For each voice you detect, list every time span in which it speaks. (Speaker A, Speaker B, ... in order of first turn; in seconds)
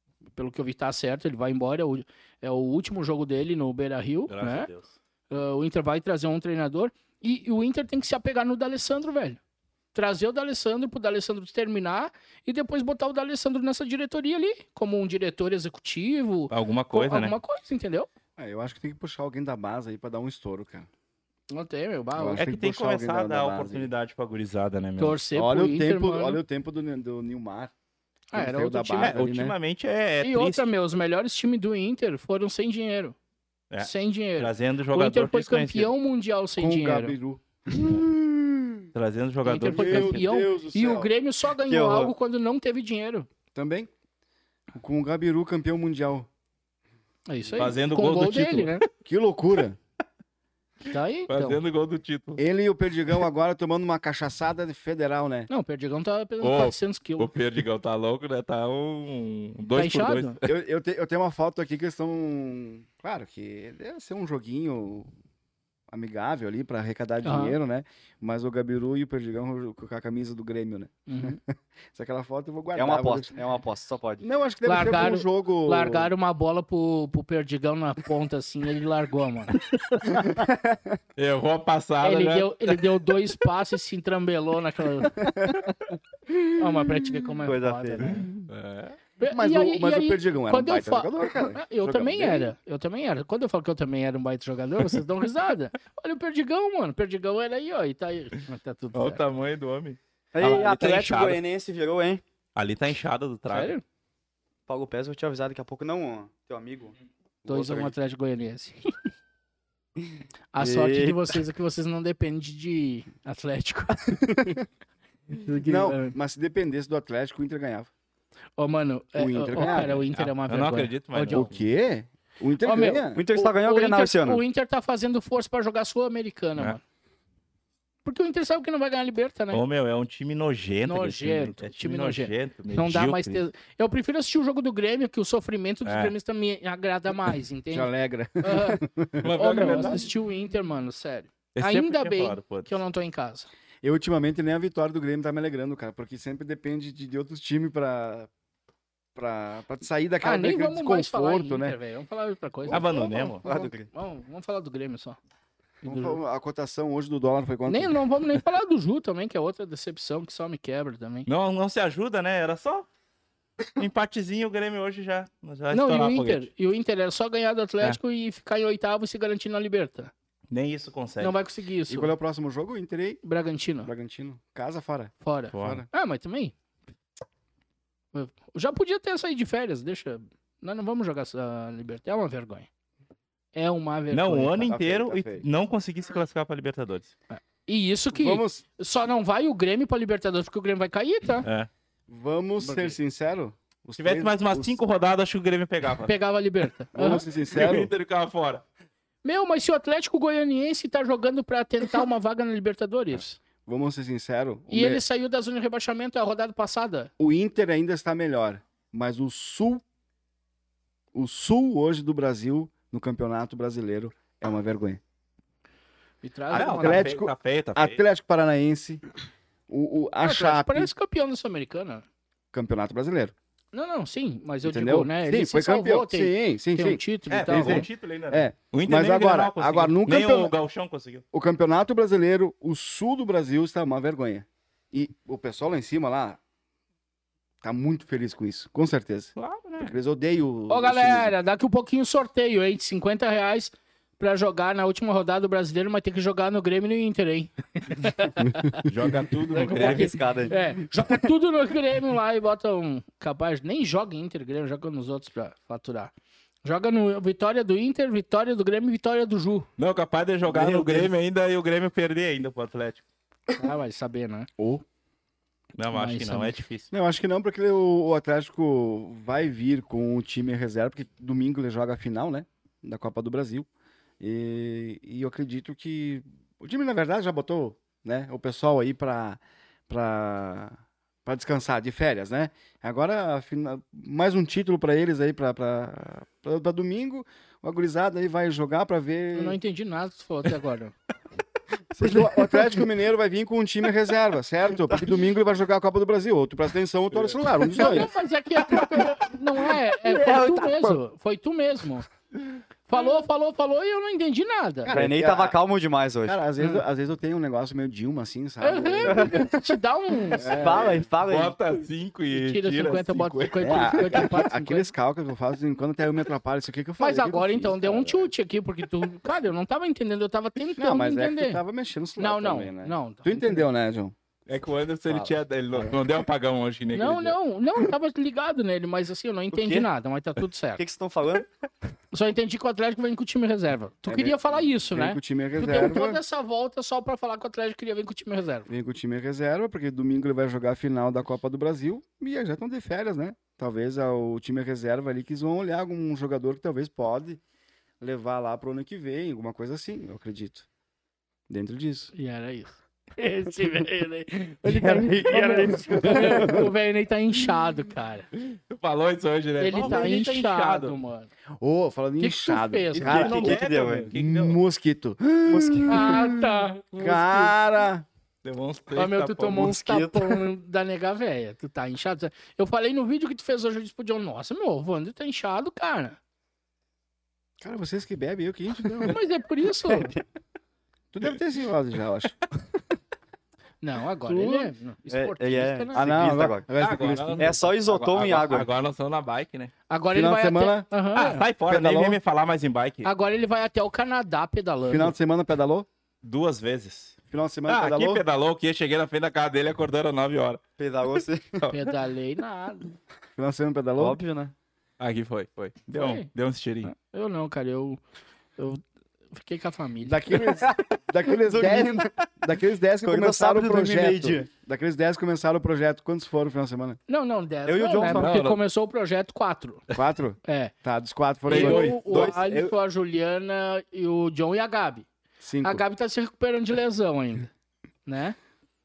Speaker A: 0.3-4.7, 5.3-9.4, 9.9-18.1, 21.5-22.4, 25.0-26.4, 28.3-29.1, 30.2-33.1, 33.8-37.1, 39.4-43.3, 47.3-48.8, 50.9-51.6, 55.5-57.3, 59.8-60.4, 67.2-67.6, 71.1-71.4, 74.6-79.6, 82.0-85.3, 86.5-88.3, 89.2-99.2, 103.5-103.8, 107.5-108.9, 110.5-114.3, 115.3-116.1, 118.6-121.5, 122.6-126.8, 128.0-129.6, 130.8-138.8, 139.3-143.5, 150.2-152.9, 153.9-155.2, 155.8-156.2, 157.7-161.3, 165.7-170.1, 171.2-172.1, 173.2-173.9, 175.2-176.5, 178.1-182.7, 183.5-184.7, 187.3-191.4, 192.6-192.9, 196.1-197.2, 199.2-203.4, 204.7-207.1, 216.2-217.1, 220.2-222.0, 223.7-227.9, 240.7-248.9, 249.6-256.1, 256.6-259.7, 263.6-264.5, 265.9-266.6, 289.3-290.9, 297.7-302.1, 302.9-304.9, 308.6-310.8, 312.3-314.9, 317.0-321.6, 322.2-323.6, 326.9-330.8, 332.1-338.7, 352.1-358.3, 359.6-361.3, 362.2-363.4, 365.9-367.5, 368.9-376.2, 378.8-380.1, 383.8-386.1, 389.9-391.4, 393.0-395.1, 401.7-402.9, 405.9-406.3, 406.8-408.0, 408.6-410.2, 417.1-419.8, 420.4-420.7, 421.5-425.1, 425.6-427.5, 428.1-428.4
Speaker B: 4.3-4.9, 16.5-17.4, 22.4-25.2, 29.0-30.6, 33.7-35.9, 38.9-40.2, 47.6-48.8, 51.3-52.4, 56.4-60.4, 81.2-82.8, 88.5-89.0, 98.9-101.4, 102.5-103.7, 119.6-121.5, 129.5-133.4, 135.8-136.1, 139.2-140.1, 141.5-142.8, 152.7-153.4, 161.3-162.9, 163.8-166.5, 170.5-171.3, 175.5-175.8, 184.1-187.1, 191.4-191.7, 194.0-196.2, 197.5-198.6, 216.5-218.0, 227.3-231.2, 239.4-239.9, 248.8-250.1, 259.8-263.0, 265.8-266.9, 297.1-297.4, 311.2-314.3, 324.5-327.4, 358.4-360.9, 363.0-364.6, 368.4-369.7, 386.8-389.7, 391.1-393.1, 396.2-397.1, 397.7-400.6, 405.0-406.9, 418.0-418.6, 421.5-422.3
Speaker C: 18.4-20.9, 22.1-23.9, 25.3-27.7, 28.3-29.5, 36.6-38.9, 39.7-41.1, 43.5-43.9, 44.7-46.3, 49.0-49.8, 52.4-55.5, 60.4-65.1, 65.9-73.4, 74.2-76.1, 80.1-80.4, 85.2-85.7, 89.3-92.5, 115.6-117.9, 119.2-120.0, 121.3-123.2, 137.7-140.1, 143.8-148.3, 149.1-151.8, 152.7-153.7, 155.8-158.0, 171.9-173.2, 173.8-175.8, 184.6-185.4, 188.1-188.6, 192.1-194.8, 196.9-197.9, 203.7-205.0, 207.2-209.8, 211.1-215.0, 216.5-219.0, 219.7-220.9, 222.5-223.3, 224.6-230.5, 231.3-236.4, 237.6-241.3, 264.6-264.8, 266.9-273.7, 274.2-289.6, 291.9-298.1, 304.8-305.6, 306.2-309.6, 310.4-311.1, 313.6-318.3, 320.8-324.1, 334.1-336.2, 338.7-347.4, 348.0-350.6, 351.5-352.1, 356.1-356.7, 361.6-363.6, 364.1-368.1, 377.6-379.2, 381.1-382.4, 384.3-384.7, 385.9-387.6, 390.1-390.9, 391.7-392.2, 394.9-395.9, 397.3-398.2, 403.4-404.2, 410.0-417.0, 419.9-422.3, 425.4-425.8
Speaker D: 41.7-42.1, 72.7-74.2, 87.4-88.3, 100.3-102.2, 104.7-107.9, 110.6-111.4, 123.1-124.4, 153.4-153.9, 249.5-250.6, 260.4-261.1, 292.0-292.9, 300.0-301.0, 304.9-306.4, 309.1-309.4, 310.4-311.6, 329.5-329.9, 330.8-331.5, 354.6-356.7, 363.1-364.1, 365.5-366.2, 369.5-370.4, 379.9-380.2, 385.1-386.7, 387.4-388.7, 400.8-401.7, 404.0-404.5, 410.6-412.1, 413.0-414.5, 417.6-418.3, 422.0-422.7